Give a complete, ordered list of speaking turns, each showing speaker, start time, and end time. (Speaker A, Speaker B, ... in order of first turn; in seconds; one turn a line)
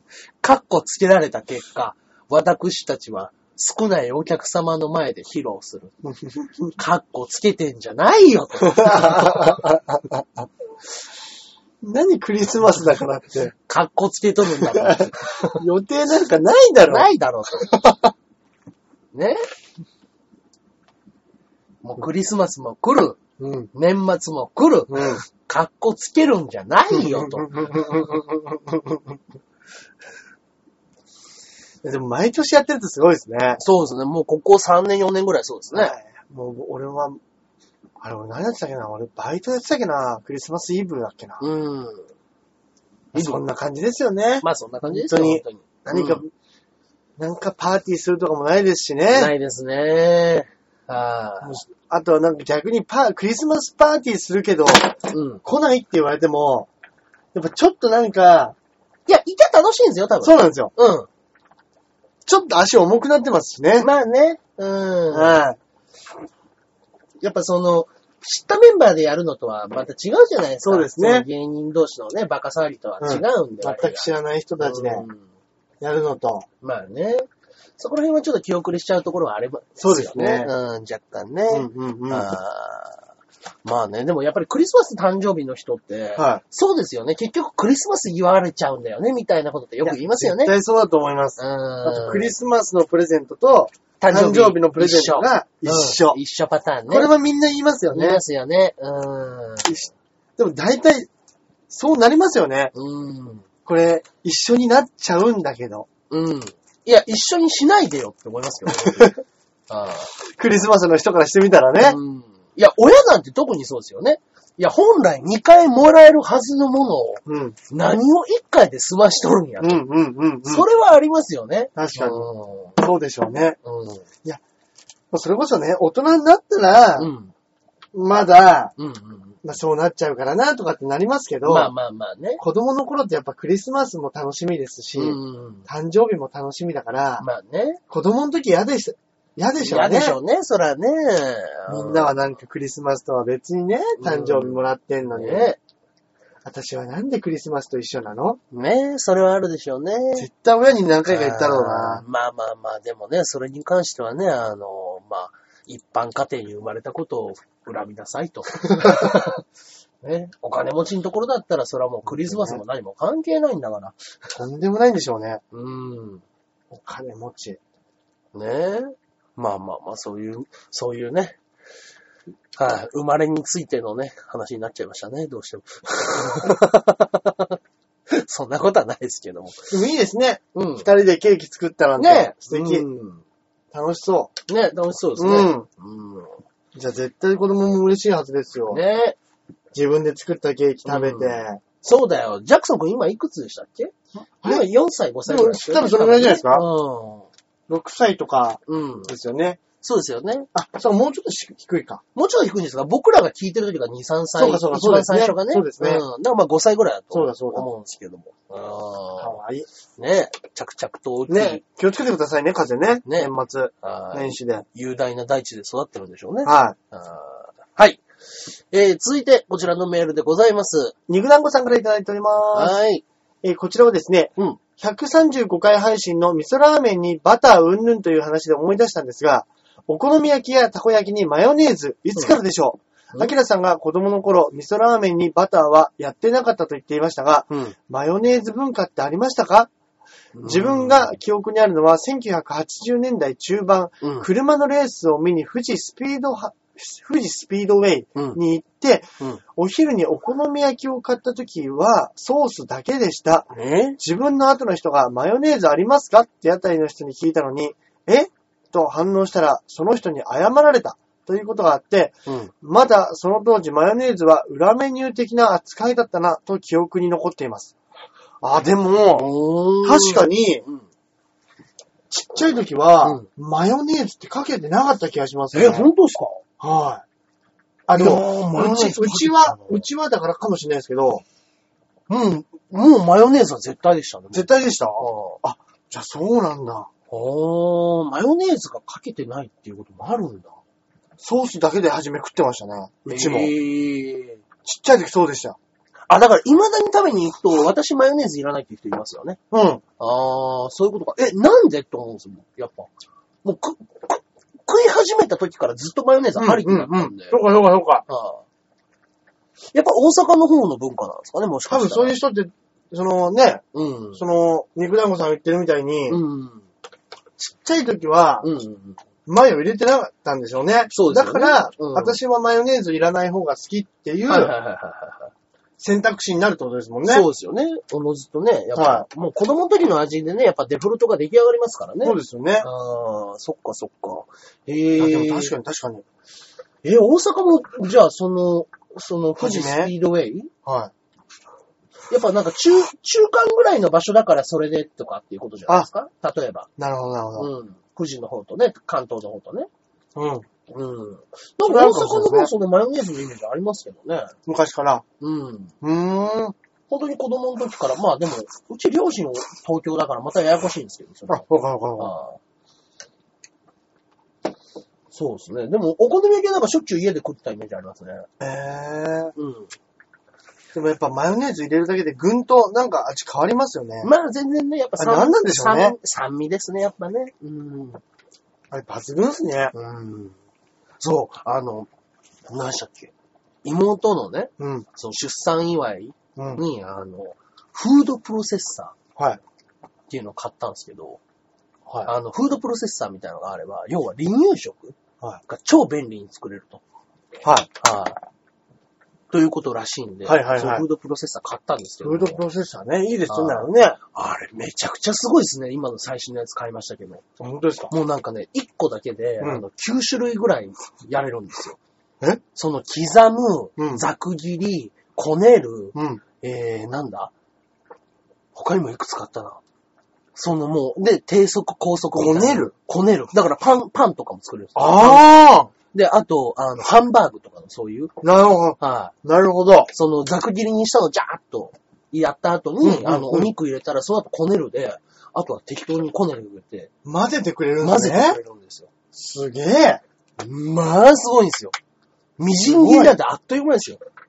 Speaker A: 0.4-6.0
Speaker B: 6.2-6.7
Speaker A: 6.8-9.6
Speaker B: 8.7-10.5
Speaker B: 11.8-13.5
Speaker A: 13.7-15.6
Speaker B: 14.6-18.1
Speaker A: 16.9-17.8
Speaker A: 19.1-19.5
Speaker A: 21.8-23.2
Speaker B: 23.4-23.7
Speaker A: 23.7-27.9
Speaker B: 24.9-25.2
Speaker B: 26.9-29.2
Speaker B: 31.8-33.6
Speaker A: 33.6-36.0
Speaker B: 35.7-37.2
Speaker B: 38.0-41.4
Speaker A: 41.4-42.1
Speaker A: 43.1-43.4
Speaker B: 43.1-46.3
Speaker A: 44.4-46.2
Speaker B: 47.2-49.3
Speaker A: 49.1-51.6
Speaker B: 51.4-56.7
Speaker A: 55.1-55.4
Speaker B: 57.3-58.6
Speaker A: 59.1-61.1
Speaker B: 60.2-60.7
Speaker B: 62.3-63.9
Speaker A: 63.8-65.4
Speaker B: 65.1-65.6
Speaker A: 67.2-74.1
Speaker B: 70.6-71.3
Speaker B: 73.0-75.1
Speaker A: 74.6-75.3
Speaker B: 75.8-76.5
Speaker A: 76.6-83.0
Speaker B: 79.8-80.5
Speaker B: 81.5-82.3
Speaker A: 83.6-90.5
Speaker B: 86.2-86.4
Speaker B: 89.8-96.2
Speaker A: 91.4-92.3
Speaker A: 94.0-97.1
Speaker B: 96.9-98.2
Speaker A: 97.9-99.7
Speaker B: 99.7-101.1
Speaker B: 101.7-102.7
Speaker A: 102.7-103.5
Speaker B: 103.7-105.9
Speaker A: 106.1-110.1
Speaker B: 108.7-109.2
Speaker B: 110.2-112.0
Speaker A: 111.8-119.8
Speaker B: 117.3-117.6
Speaker B: 119.6-120.7
Speaker A: 120.5-122.8
Speaker B: 121.8-123.6
Speaker A: 123.6-124.0
Speaker B: 125.1-127.1
Speaker A: 127.0-127.3
Speaker B: 127.9-128.7
Speaker A: 128.8-129.4
Speaker B: 129.4-131.7
Speaker A: 131.4-132.4
Speaker B: 132.4-137.3
Speaker A: 135.0-135.7
Speaker A: 137.2-137.8
Speaker B: 137.9-140.2
Speaker A: 139.6-142.1
Speaker B: 141.7-145.5
Speaker A: 144.0-144.6
Speaker A: 145.1-145.6
Speaker B: 146.4-148.4
Speaker A: 148.5-150.3
Speaker B: 150.2-152.1
Speaker A: 151.1-159.4
Speaker B: 158.8-159.2
Speaker A: 160.0-164.3
Speaker B: 162.1-162.6
Speaker B: 164.4-165.4
Speaker A: 165.5-166.2
Speaker B: 166.7-167.6
Speaker A: 168.3-171.4
Speaker A: 172.6-177.6
Speaker A: 178.1-179.7
Speaker B: 179.7-182.9
Speaker A: 180.6-180.9
Speaker A: 182.0-183.2
Speaker B: 183.7-184.3
Speaker A: 184.5-186.4
Speaker B: 185.2-185.7
Speaker B: 186.8-188.8
Speaker A: 188.7-189.2
Speaker B: 189.7-191.6
Speaker A: 190.9-197.3
Speaker B: 194.4-194.7
Speaker B: 195.3-196.7
Speaker B: 197.7-199.6
Speaker A: 198.7-199.1
Speaker A: 199.8-200.5
Speaker B: 200.5-202.0
Speaker A: 202.2-209.4
Speaker B: 204.4-206.1
Speaker B: 207.1-207.7
Speaker B: 209.2-209.7
Speaker A: 210.0-211.6
Speaker B: 211.3-214.7
Speaker A: 213.1-220.9
Speaker B: 216.4-216.8
Speaker B: 221.1-222.8
Speaker A: 222.5-223.1
Speaker B: 223.4-239.7
Speaker A: 237.5-237.8
Speaker A: 240.3-241.1
Speaker B: 240.4-267.7
Speaker A: 244.0-244.3
Speaker A: 253.5-254.0
Speaker A: 262.3-262.5
Speaker B: 268.4-269.3
Speaker A: 269.2-270.9
Speaker B: 269.8-270.6
Speaker B: 272.1-275.9
Speaker A: 273.0-273.3
Speaker A: 275.5-276.4
Speaker B: 276.6-277.0
Speaker B: 277.9-281.2
Speaker A: 277.9-279.9
Speaker A: 282.1-285.4
Speaker B: 284.3-286.9
Speaker A: 287.1-290.6
Speaker B: 291.2-293.5
Speaker A: 293.1-294.4
Speaker B: 294.6-295.6
Speaker A: 296.1-299.4
Speaker B: 299.5-299.8
Speaker A: 300.0-302.9
Speaker A: 303.4-307.4
Speaker B: 306.4-308.1
Speaker A: 308.1-308.4
Speaker A: 309.7-312.2
Speaker B: 311.7-313.6
Speaker A: 313.7-314.2
Speaker B: 314.1-316.2
Speaker A: 316.1-316.7
Speaker B: 317.4-318.5
Speaker A: 318.4-319.0
Speaker B: 319.3-324.5
Speaker A: 320.9-322.2
Speaker A: 324.3-325.3
Speaker B: 325.8-327.3
Speaker A: 327.1-335.6
Speaker B: 328.8-329.1
Speaker B: 332.0-332.7
Speaker B: 335.0-336.1
Speaker A: 336.8-340.5
Speaker B: 339.4-339.9
Speaker B: 340.6-340.9
Speaker A: 342.1-346.7
Speaker B: 346.8-347.5
Speaker A: 347.4-349.7
Speaker B: 350.1-350.5
Speaker A: 350.7-354.4
Speaker B: 351.6-352.5
Speaker B: 354.5-355.0
Speaker A: 355.2-355.8
Speaker B: 355.8-356.6
Speaker A: 356.9-361.4
Speaker B: 361.3-362.1
Speaker A: 362.0-362.4
Speaker A: 365.1-368.3
Speaker B: 368.4-369.3
Speaker A: 369.4-369.7
Speaker B: 370.7-374.1
Speaker A: 374.0-378.0
Speaker B: 375.0-376.0
Speaker B: 378.7-379.7
Speaker A: 379.7-380.4
Speaker A: 381.0-381.9
Speaker A: 382.5-383.1
Speaker A: 383.6-389.0
Speaker B: 384.6-384.9
Speaker B: 386.4-386.6
Speaker A: 390.1-391.2
Speaker A: 392.1-396.8
Speaker B: 397.4-397.7
Speaker A: 397.8-398.2
Speaker A: 399.3-402.4
Speaker B: 400.2-400.9
Speaker B: 402.0-404.0
Speaker A: 403.3-407.2
Speaker B: 407.4-407.9
Speaker A: 407.9-411.8
Speaker A: 412.6-417.3
Speaker B: 413.8-414.0
Speaker B: 415.9-416.2
Speaker A: 418.6-419.6
Speaker A: 420.4-428.1
Speaker B: 422.1-422.7
Speaker B: 424.8-425.7
Speaker B: 428.2-429.9
Speaker A: 428.8-429.1
Speaker A: 429.9-436.9
Speaker B: 432.8-433.5
Speaker B: 437.1-438.4
Speaker A: 437.8-438.9
Speaker B: 439.1-440.0
Speaker A: 440.4-441.8
Speaker A: 442.4-444.0
Speaker B: 442.6-443.2